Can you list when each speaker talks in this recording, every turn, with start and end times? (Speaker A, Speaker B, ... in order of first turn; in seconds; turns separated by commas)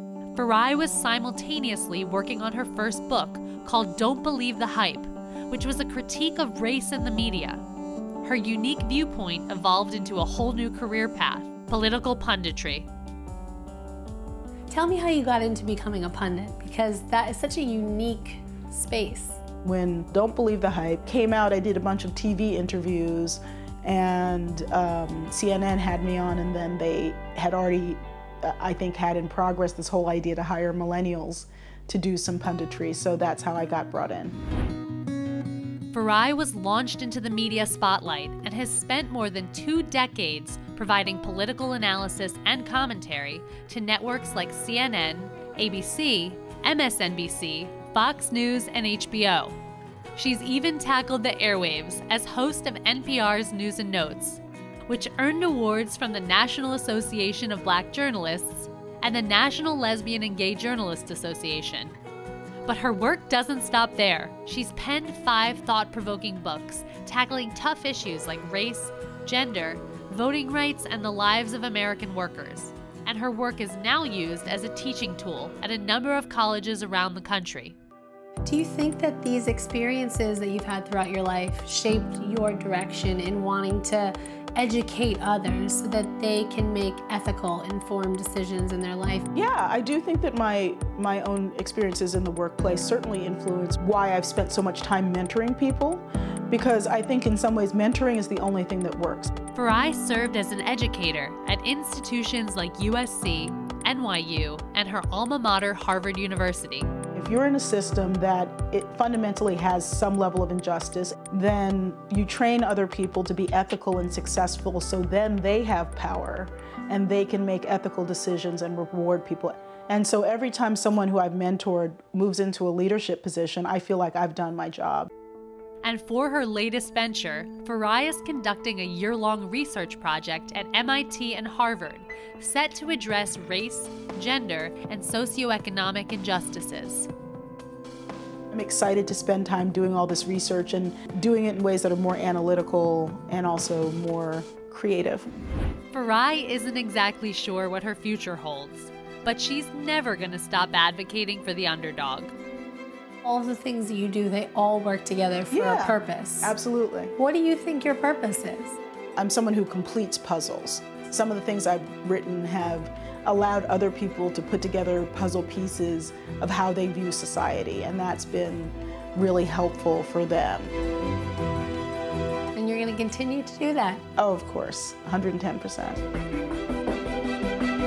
Speaker A: 0.3-7.6, Speaker A: 8.2-12.9, Speaker B: 14.7-19.4, Speaker C: 19.6-34.4, Speaker A: 35.9-49.6, Speaker A: 50.1-62.0, Speaker A: 62.6-77.8, Speaker B: 78.5-89.3, Speaker C: 89.3-99.3, Speaker A: 99.5-106.9, Speaker C: 107.1-125.1, Speaker A: 125.8-137.1, Speaker C: 138.5-145.3, Speaker A: 145.9-152.3, Speaker B: 153.2-156.6, Speaker C: 155.5-157.1, Speaker B: 157.2-158.8, Speaker C: 159.2-170.7, Speaker B: 172.6-174.0, Speaker C: 174.2-176.0